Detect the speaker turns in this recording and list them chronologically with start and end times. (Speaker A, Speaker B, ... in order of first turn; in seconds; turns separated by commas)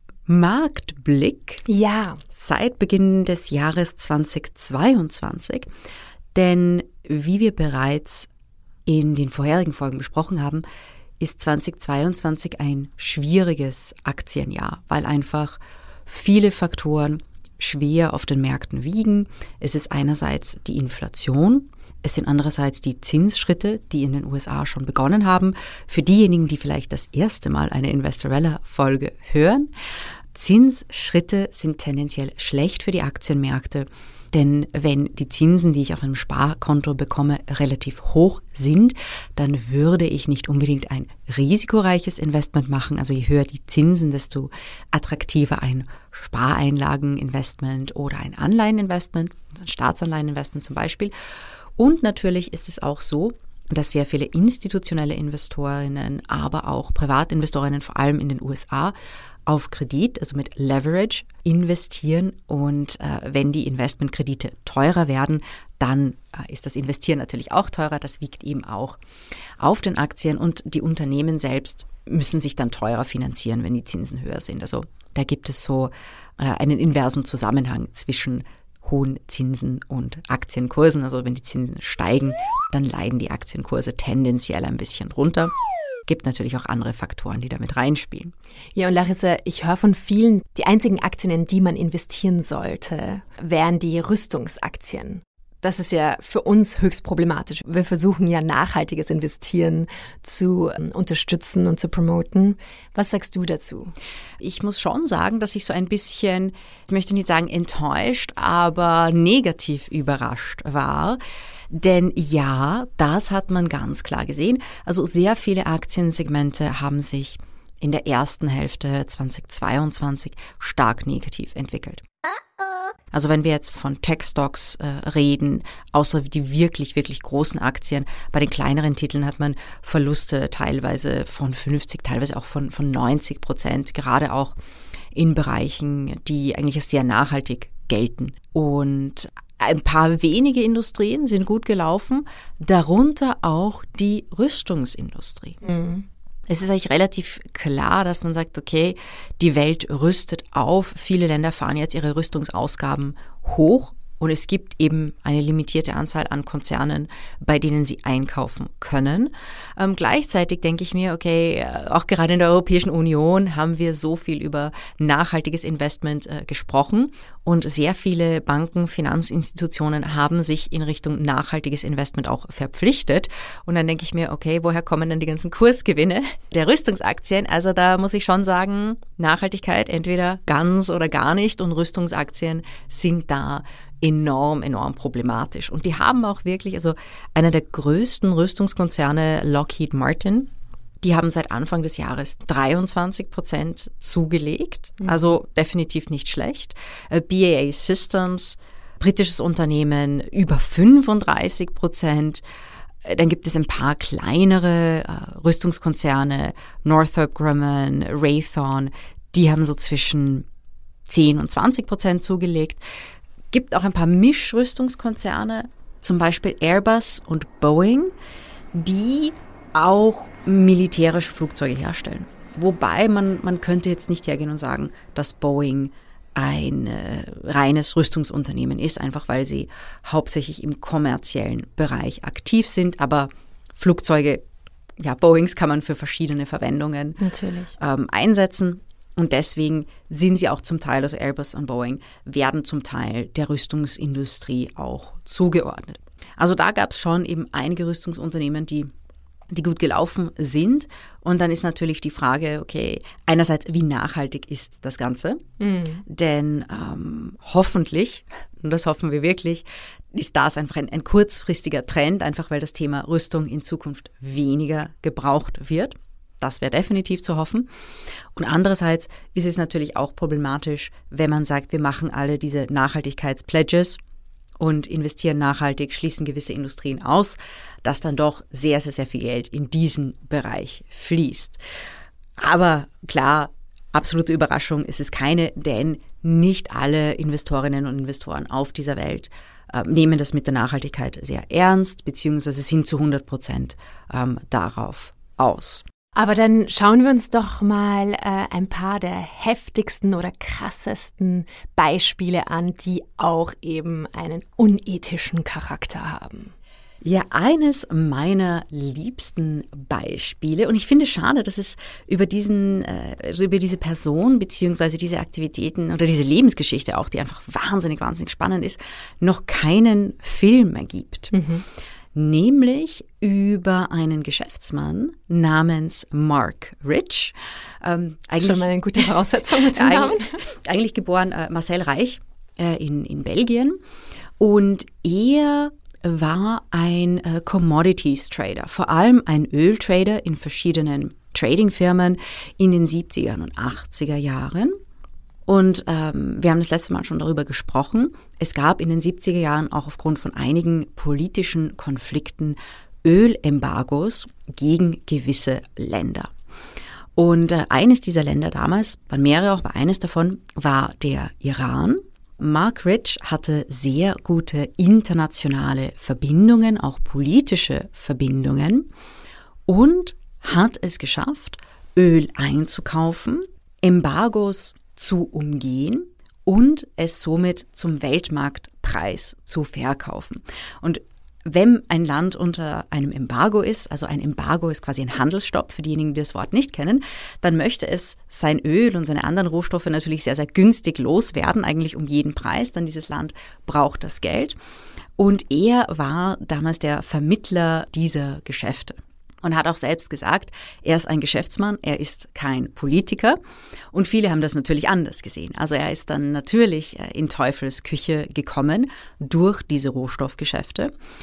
Speaker A: 0.2-1.6, Speaker B: 1.7-2.2, Speaker A: 2.3-5.7, Speaker A: 6.3-8.3, Speaker A: 8.9-10.6, Speaker A: 11.2-29.7, Speaker A: 30.3-51.1, Speaker A: 51.8-59.0, Speaker A: 59.5-69.0, Speaker A: 69.6-85.5, Speaker A: 86.1-88.3, Speaker B: 88.8-103.9, Speaker A: 104.4-111.2, Speaker A: 111.7-122.0, Speaker A: 123.1-134.6, Speaker A: 135.1-145.6, Speaker B: 145.6-146.1, Speaker A: 146.5-190.5, Speaker A: 191.0-202.4, Speaker A: 203.0-210.5, Speaker A: 211.1-212.8, Speaker A: 213.5-218.1, Speaker A: 218.7-234.4, Speaker A: 235.0-237.2, Speaker B: 237.2-237.7, Speaker A: 237.8-248.9, Speaker A: 249.5-255.4, Speaker B: 255.6-256.0, Speaker A: 256.1-267.7, Speaker A: 268.4-274.0, Speaker A: 274.6-281.6, Speaker A: 282.4-295.9, Speaker B: 296.1-306.5, Speaker A: 307.0-321.3, Speaker B: 321.3-321.6, Speaker A: 322.1-333.8, Speaker B: 328.4-330.4, Speaker A: 334.4-344.8, Speaker A: 345.5-356.3, Speaker A: 357.1-368.9, Speaker A: 369.7-394.6, Speaker A: 395.2-403.4, Speaker A: 403.9-410.9